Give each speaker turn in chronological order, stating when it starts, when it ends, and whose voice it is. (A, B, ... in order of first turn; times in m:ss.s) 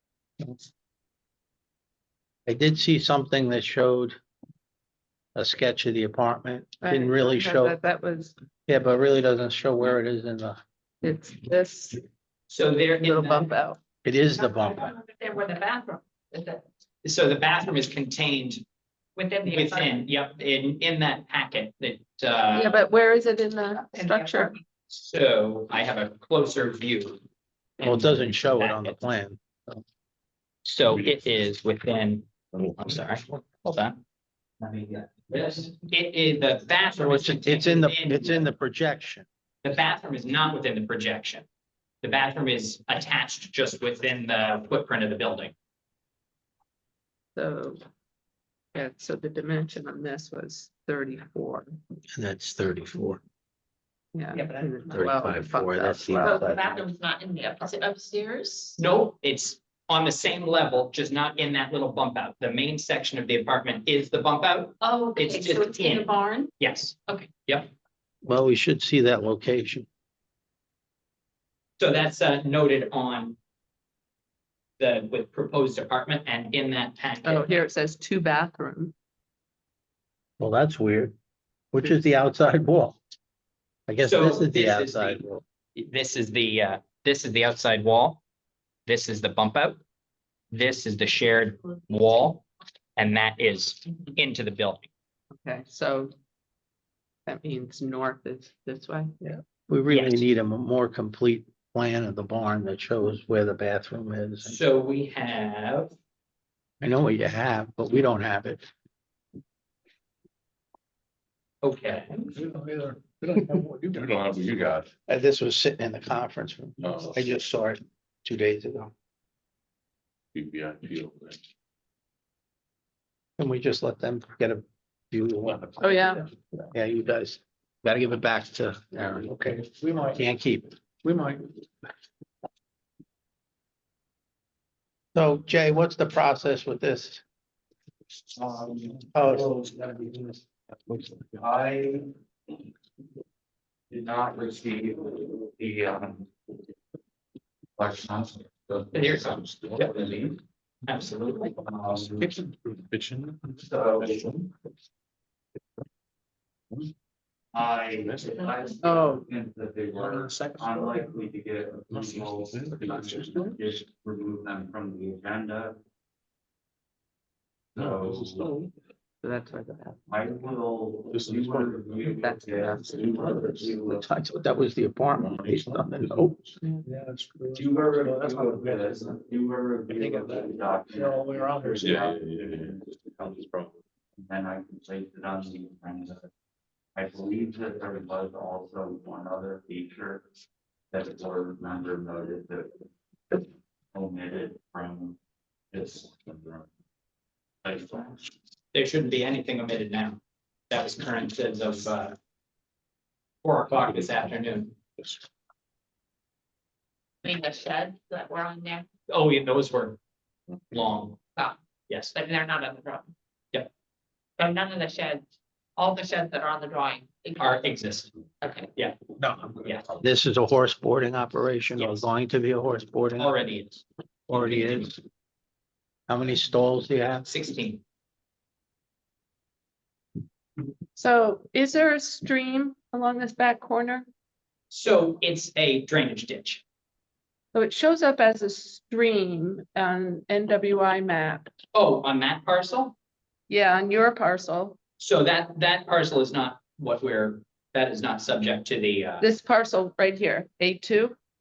0:02.5-0:04.2 A
0:05.4-0:07.8 A
0:06.8-0:08.3 B
0:08.7-0:10.6 A
0:11.0-0:12.0 B
0:12.5-0:13.6 C
0:12.9-0:13.8 B
0:14.0-0:14.9 A
0:14.3-0:16.6 D
0:17.0-0:18.6 C
0:19.2-0:20.0 D
0:19.5-0:22.8 C
0:22.5-0:24.6 B
0:23.8-0:24.6 D
0:24.9-0:27.2 C
0:27.8-0:29.0 C
0:27.8-0:29.8 A
0:30.6-0:34.0 C
0:30.9-0:31.5 E
0:34.6-0:38.5 C
0:37.0-0:39.3 A
0:39.6-0:41.4 C
0:42.0-0:45.5 C
0:47.4-0:47.8 B
0:48.7-0:51.7 B
0:52.1-0:53.2 A
0:54.1-0:56.2 B
0:54.3-0:55.1 D
0:54.9-0:56.8 A
0:56.2-0:58.8 D
0:58.8-1:07.7 C
1:04.8-1:06.5 D
1:08.2-1:09.9 A
1:11.8-1:13.4 C
1:14.8-1:17.5 C
1:17.2-1:18.9 B
1:20.4-1:21.2 A
1:21.7-1:23.0 A
1:23.9-1:25.4 A
1:24.0-1:28.2 C
1:28.9-1:29.8 C
1:30.5-1:32.4 C
1:33.0-1:34.9 C
1:35.4-1:36.1 B
1:37.3-1:39.1 B
1:39.2-1:44.6 A
1:39.9-1:40.2 C
1:44.4-1:45.9 C
1:46.8-1:48.7 A
1:51.6-1:52.3 C
1:52.3-1:54.1 F
1:53.9-1:54.9 E
1:55.1-1:58.9 A
1:56.8-1:57.2 E
2:00.3-2:01.4 E
2:03.4-2:11.5 A
2:05.8-2:06.2 B
2:09.5-2:09.7 F
2:15.2-2:17.2 A
2:18.3-2:20.4 G
2:19.1-2:19.5 A
2:21.2-2:22.1 G
2:23.9-2:26.3 G
2:27.8-2:30.4 G
2:28.9-2:30.3 C
2:29.6-2:29.9 E
2:30.9-2:31.6 C
2:31.6-2:32.4 G
2:31.9-2:33.4 E
2:33.6-2:34.5 G
2:37.5-2:45.8 G
2:38.0-2:38.4 E
2:38.8-2:39.2 B
2:40.0-2:41.1 F
2:41.9-2:43.6 E
2:47.8-2:48.5 G
2:47.8-2:48.5 E
2:49.2-2:50.0 B
2:50.1-2:54.0 G
2:51.1-2:52.0 E
2:52.1-2:52.8 B
2:52.8-2:53.2 E
2:53.2-2:56.4 A
2:55.2-2:55.8 E
2:56.9-2:59.0 F
2:57.5-3:03.3 G
3:00.0-3:02.0 F
3:01.7-3:02.8 E
3:03.3-3:03.7 E
3:04.2-3:06.3 G
3:07.0-3:10.2 G
3:10.9-3:13.4 G
3:13.9-3:15.2 G
3:15.7-3:16.4 G
3:17.6-3:18.3 G
3:18.7-3:20.2 C
3:20.7-3:22.2 C
3:23.4-3:24.8 C
3:27.2-3:28.9 D
3:29.1-3:30.0 C
3:30.7-3:31.2 C
3:32.1-3:33.1 D
3:34.4-3:35.2 D
3:35.8-3:37.6 D
3:37.4-3:38.1 C
3:38.4-3:38.7 D
3:39.6-3:39.9 C
3:40.0-3:43.3 A
3:41.8-3:42.0 C
3:43.2-3:43.8 C
3:44.3-3:45.0 A
3:46.1-3:47.3 A
3:47.2-3:47.8 C
3:51.0-3:54.1 B
3:54.7-3:56.6 C
3:57.5-4:01.5 B
4:01.7-4:03.0 C
4:03.5-4:04.8 B
4:05.0-4:09.3 C
4:09.2-4:11.2 B